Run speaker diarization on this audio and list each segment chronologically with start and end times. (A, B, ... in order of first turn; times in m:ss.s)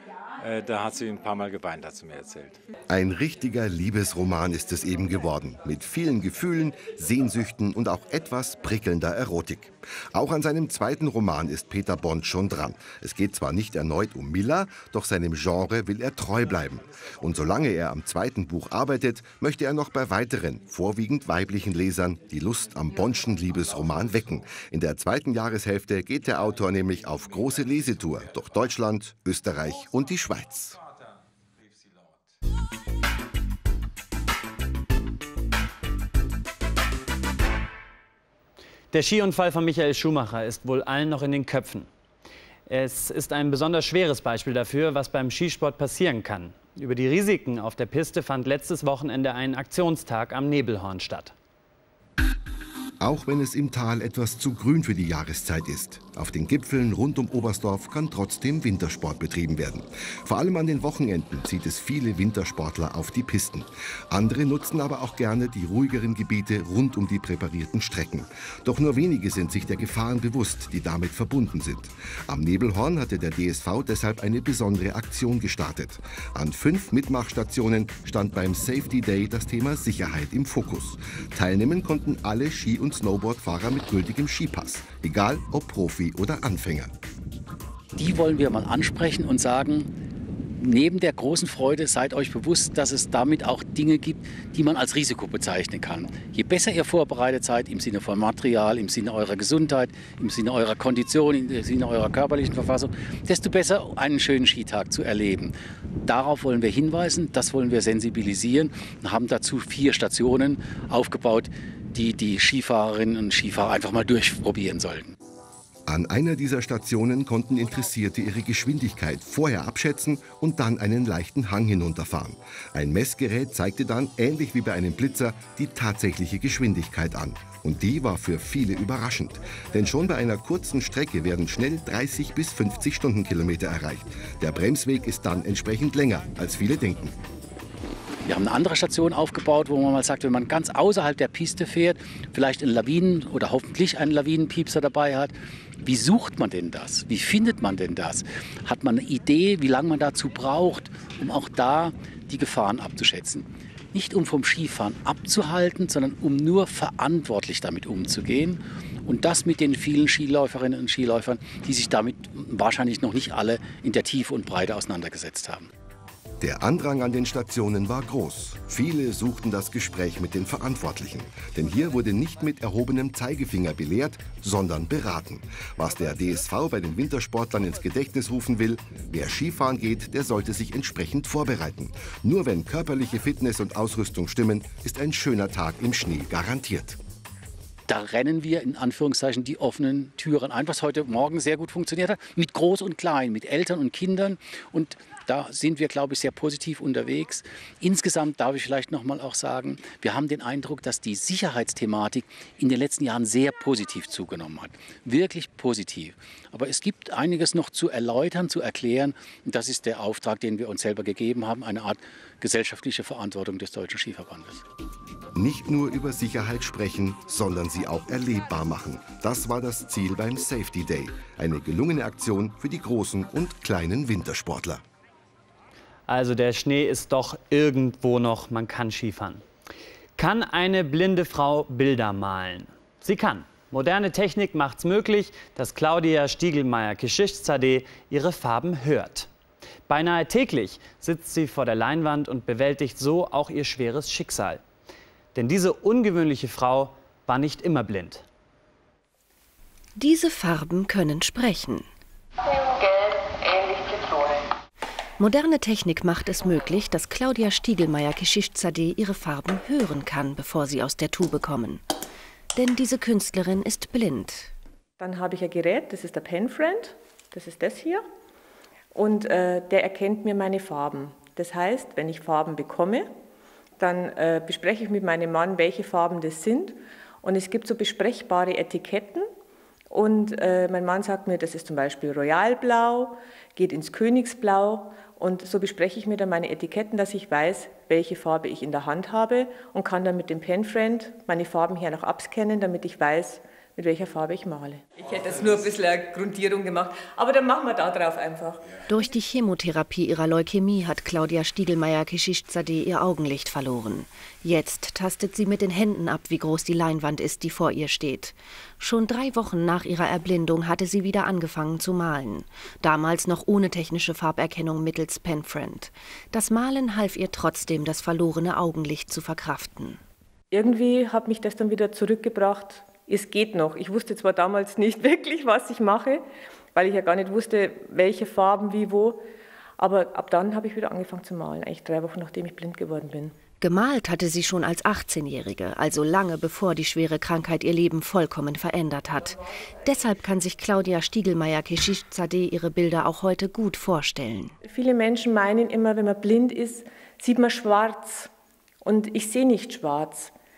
0:00.4-0:02.6 A
0:02.9-0:30.8 B
0:38.9-0:41.9 C
0:42.7-0:51.3 C
0:53.0-1:26.9 B
1:28.0-1:29.9 D
1:30.6-1:45.5 D
1:46.0-1:55.1 D
1:55.9-2:17.2 B
2:18.3-2:45.7 D
2:46.4-3:07.0 B
3:07.9-3:34.6 D
3:35.4-3:44.8 B
3:46.1-3:49.4 C
3:50.2-3:59.3 C
3:59.9-4:04.6 C
4:05.4-4:08.2 C
4:10.0-4:11.9 E
4:15.2-4:21.8 E
4:22.6-4:24.5 E
4:25.0-4:28.0 F
4:28.9-4:33.1 F
4:33.8-4:39.3 F
4:39.9-4:58.7 F
4:58.9-5:20.0 E
5:20.5-5:26.2 F
5:26.8-5:29.2 F
5:29.8-5:33.3 F
5:33.6-5:44.6 E
5:44.7-5:48.3 F
5:48.8-5:50.3 F